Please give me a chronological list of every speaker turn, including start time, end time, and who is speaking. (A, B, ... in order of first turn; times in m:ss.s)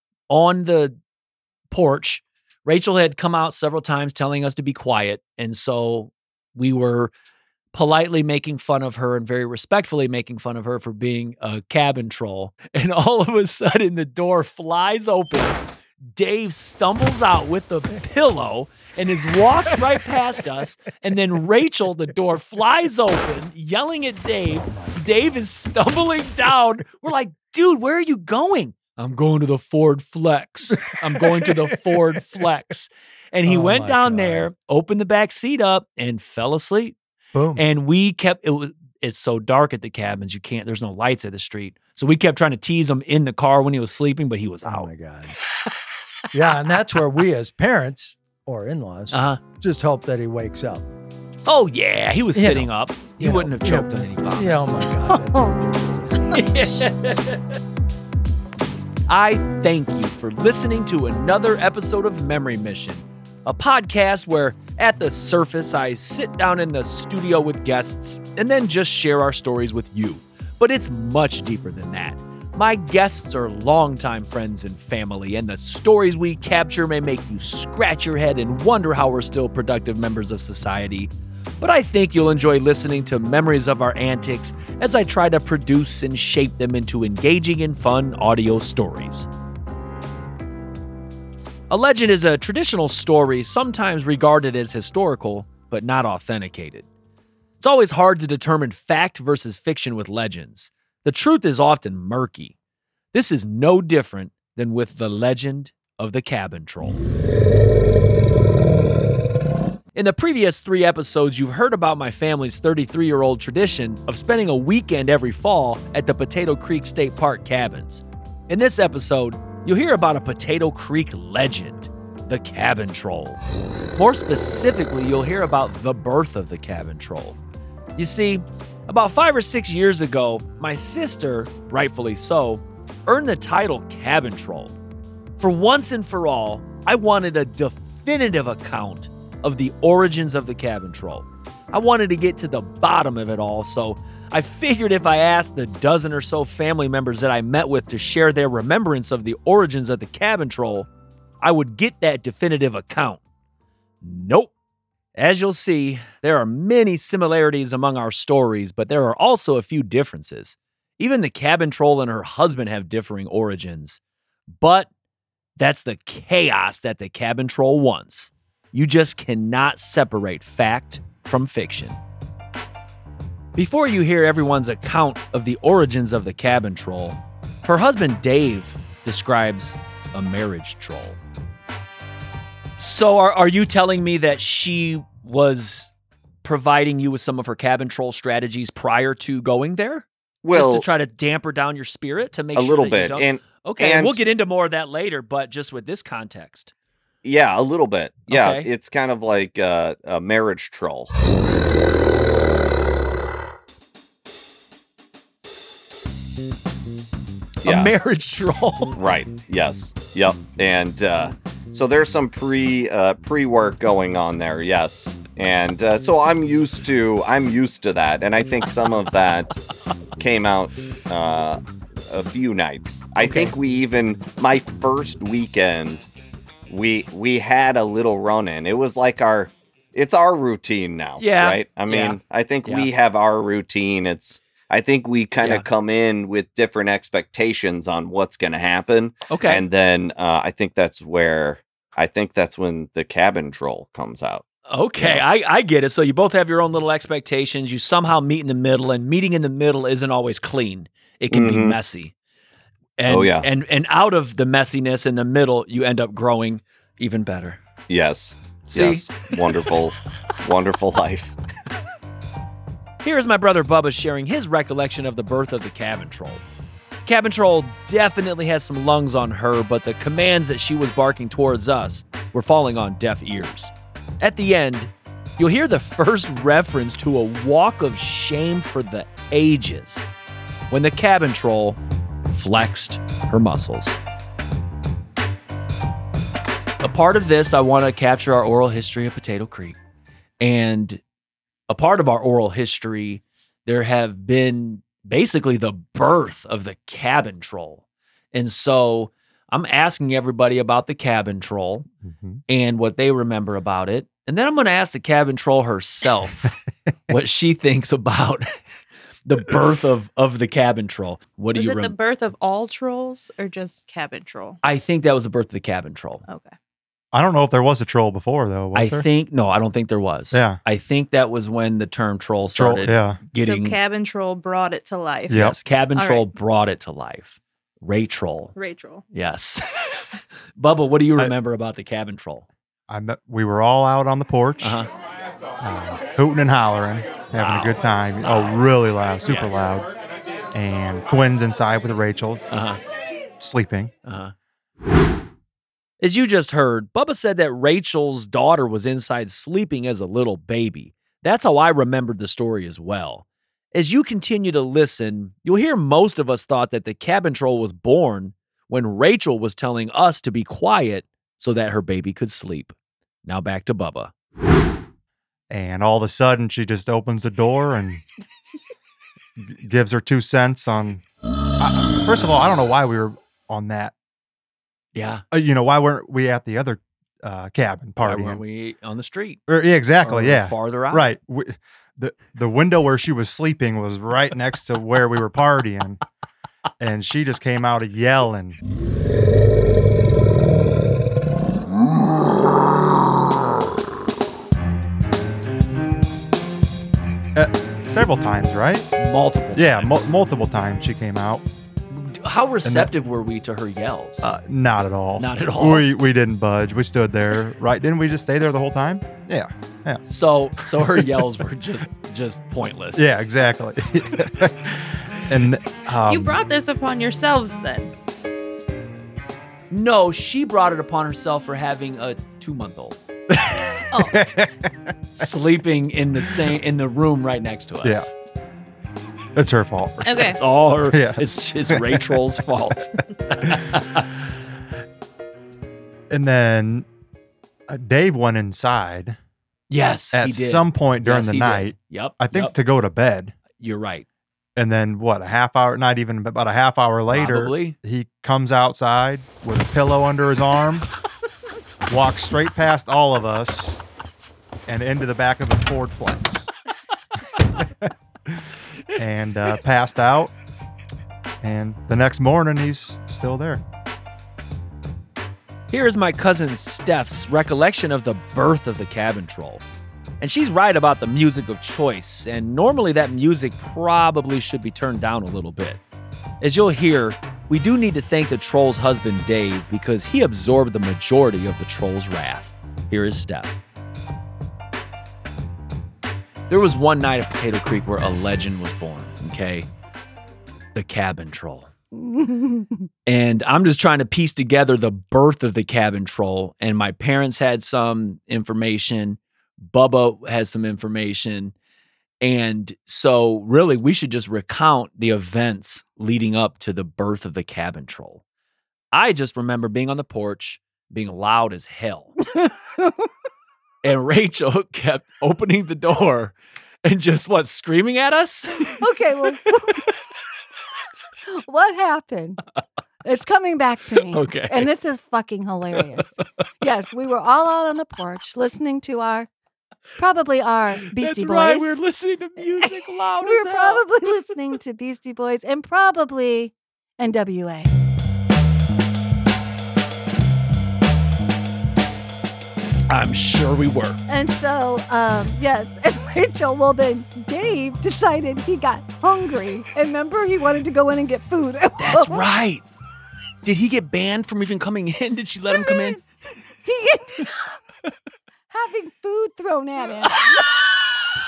0:00.3-0:01.0 A
0:01.7-0:07.1 A
0:07.7-0:15.6 A
0:16.1-0:37.0 A
0:33.5-0:34.5 B
0:37.4-0:37.6 B
0:37.6-0:44.9 A
0:44.7-0:45.4 B
0:46.3-0:50.8 B
0:49.1-0:49.4 A
0:51.5-0:54.6 A
0:52.4-0:56.6 B
0:56.3-0:57.5 A
0:59.1-1:29.3 A
1:31.7-1:36.9 A
1:37.6-1:42.6 A
1:43.1-1:47.0 A
1:50.0-2:03.4 A
2:04.0-2:07.4 A
2:08.0-2:14.8 A
2:15.4-2:30.9 A
2:31.4-2:33.2 A
2:34.0-2:34.5 A
2:35.2-2:44.0 A
2:44.5-2:44.9 A
2:45.6-2:52.0 A
2:53.6-3:01.2 A
3:02.8-3:05.9 A
3:06.4-3:16.7 A
3:10.4-3:10.8 C
3:12.6-3:14.2 C
3:17.2-3:21.1 C
3:18.3-3:18.7 A
3:27.6-3:27.9 C
3:27.6-3:28.9 A
3:28.9-3:39.6 C
3:40.2-3:46.1 C
3:43.2-3:43.5 A
3:46.7-4:04.5 C
3:51.2-3:52.9 A
3:55.4-3:55.7 A
3:59.3-3:59.6 A
4:04.7-4:12.1 A
4:05.0-4:05.2 C
4:11.3-4:11.8 C
4:13.0-4:17.6 A
4:13.1-4:13.5 C
4:17.9-4:21.4 C
4:18.7-4:19.3 A
4:23.0-4:26.4 A
4:27.0-4:40.1 A
4:40.7-4:41.8 A
4:42.3-4:44.0 A
4:46.8-4:49.8 A
4:50.4-4:51.0 A
4:51.7-5:01.9 A
5:02.0-5:02.4 D
5:02.5-5:06.5 A
5:07.1-5:08.6 A
5:09.2-5:12.0 A
5:11.5-5:14.6 E
5:14.6-5:16.2 A
5:16.3-5:16.5 E
5:17.1-5:19.0 D
5:18.7-5:23.8 A
5:20.3-5:20.6 D
5:22.5-5:23.2 D
5:23.3-5:26.3 E
5:25.3-5:25.6 D
5:25.3-5:28.5 A
5:28.5-5:29.0 E
5:29.1-5:30.0 A
5:30.6-5:32.5 A
5:32.9-5:34.8 D
5:34.6-5:34.9 A
5:35.6-5:39.9 D
5:37.4-5:38.5 A
5:39.2-5:39.6 A
5:40.5-5:42.4 D
5:42.5-5:42.8 A
5:43.4-5:43.9 D
5:44.0-5:44.3 A
5:46.0-6:04.1 A
6:05.5-6:08.0 D
6:09.4-6:11.0 D
6:11.6-6:13.9 D
6:14.9-6:15.2 A
6:15.3-6:18.4 D
6:18.0-6:19.4 A
6:19.5-6:26.0 D
6:20.0-6:21.0 A
6:26.8-6:28.6 D
6:37.3-6:38.9 D
6:39.0-6:40.1 A
6:39.5-6:41.4 D
6:41.9-6:44.3 A
6:42.6-6:42.9 D
6:44.2-6:50.0 D
6:45.2-6:45.9 A
6:50.1-6:53.1 A
6:50.7-6:51.2 D
6:52.9-6:56.3 D
6:56.0-6:57.9 E
6:59.7-7:03.0 A
7:03.4-7:05.3 D
7:03.9-7:04.2 E
7:05.1-7:08.1 A
7:07.8-7:08.1 D
7:09.4-7:12.3 D
7:10.1-7:10.4 E
7:10.1-7:14.1 A
7:13.5-7:13.8 D
7:16.1-7:16.9 D
7:17.7-7:19.2 D
7:19.7-7:22.5 A
7:20.1-7:23.3 D
7:23.6-7:24.0 A
7:24.6-7:30.9 D
7:27.1-7:27.8 A
7:31.9-7:33.8 D
7:34.7-7:36.5 D
7:37.6-7:38.4 D
7:38.9-7:40.3 D
7:41.4-7:43.6 D
7:45.7-7:49.6 A
7:50.2-7:55.8 A
7:56.4-8:03.6 A
8:06.5-8:09.7 A
8:10.7-8:11.7 A
8:12.0-8:12.7 F
8:13.0-8:21.5 A
8:22.2-8:28.2 A
8:28.9-8:32.1 A
8:33.8-8:38.8 A
8:38.8-8:39.8 F
8:41.3-8:42.4 F
8:43.0-8:49.3 F
8:44.1-8:44.7 A
8:50.0-8:51.8 F
8:50.9-8:53.9 A
8:52.6-8:57.7 F
9:02.9-9:04.0 A
9:04.1-9:12.2 F
9:11.8-9:12.6 A
9:13.4-9:16.0 A
9:15.5-9:16.0 F
9:16.6-9:17.6 F
9:18.5-9:20.5 F
9:20.0-9:20.4 A